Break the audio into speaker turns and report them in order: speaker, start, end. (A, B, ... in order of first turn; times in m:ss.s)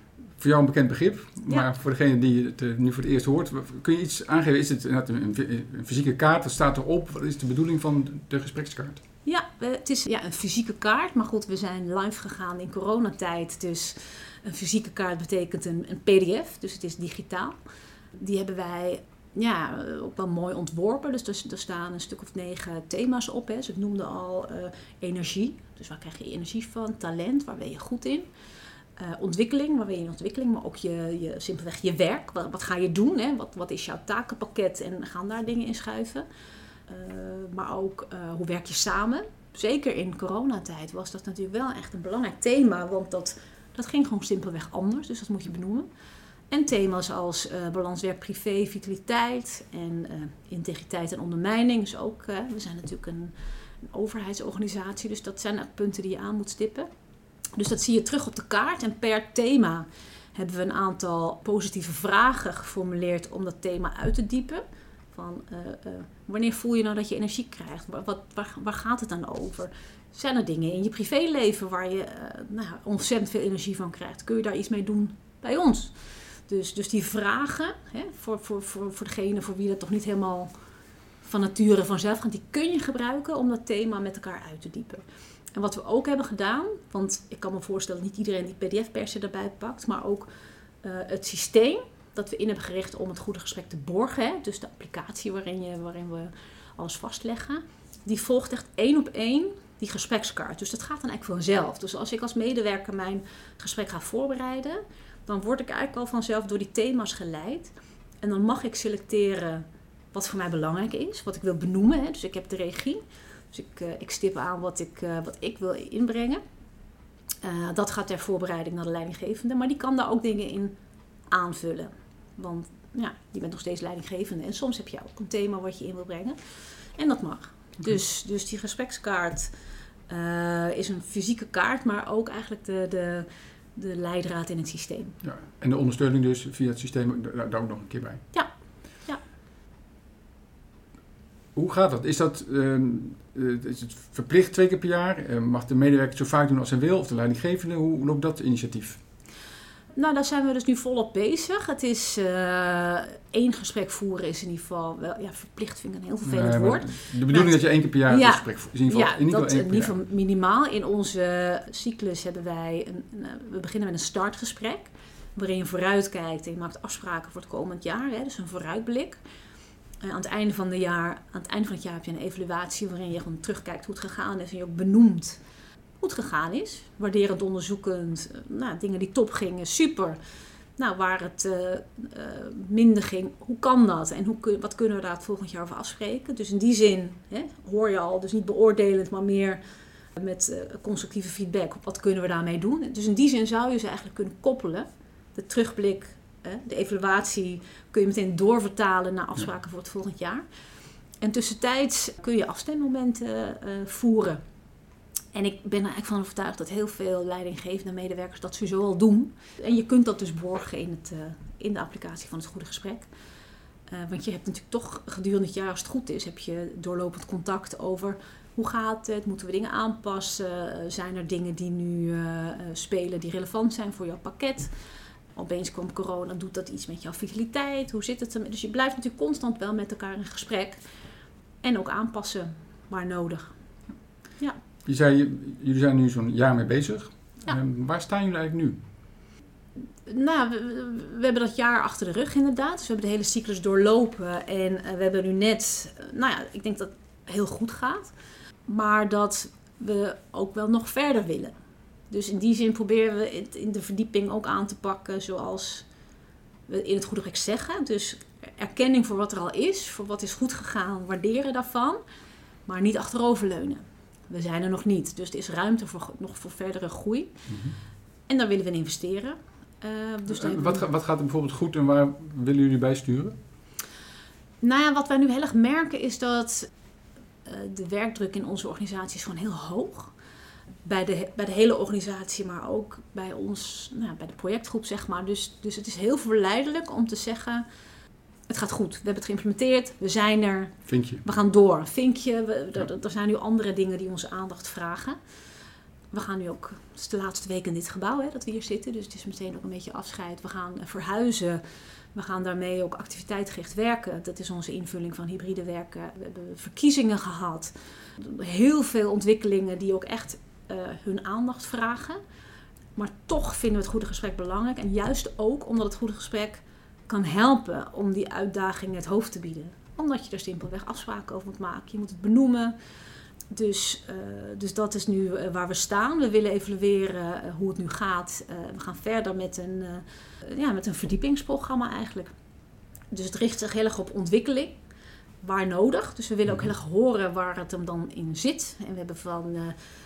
0:00.4-0:09.0 A
0:09.2-0:17.6 B
0:18.2-0:28.3 B
0:29.0-0:36.3 B
0:36.9-0:45.9 B
0:46.5-0:56.9 B
0:57.6-1:20.5 B
1:21.2-1:25.0 B
1:25.5-1:30.3 B
1:30.8-1:56.4 B
1:57.4-2:00.7 B
2:01.3-2:09.5 B
2:10.1-2:15.2 B
2:15.2-2:18.2 A
2:18.3-2:19.2 B
2:21.5-2:29.0 A
2:30.0-2:49.2 B
2:36.2-2:40.0 A
2:50.0-2:55.4 B
2:56.0-3:00.2 B
3:00.8-3:09.6 B
3:10.2-3:20.4 B
3:21.2-3:24.4 B
3:25.3-3:33.1 B
3:33.9-3:44.7 B
3:45.4-3:50.8 B
3:51.6-3:53.5 B
3:54.8-3:58.8 A
4:00.1-4:08.1 B
4:08.7-4:11.6 B
4:12.1-4:15.9 B
4:16.7-4:22.0 B
4:22.7-4:27.4 B
4:27.5-4:27.8 A
4:28.3-4:30.8 B
4:30.3-4:33.4 A
4:34.6-4:36.7 B
4:37.4-4:40.1 B
4:40.8-4:47.6 B
4:48.5-4:55.2 B
4:50.9-4:51.2 A
4:56.1-5:01.6 B
5:02.1-5:12.2 B
5:13.0-5:22.8 B
5:23.5-5:32.3 B
5:33.1-5:34.8 B
5:35.4-5:39.8 B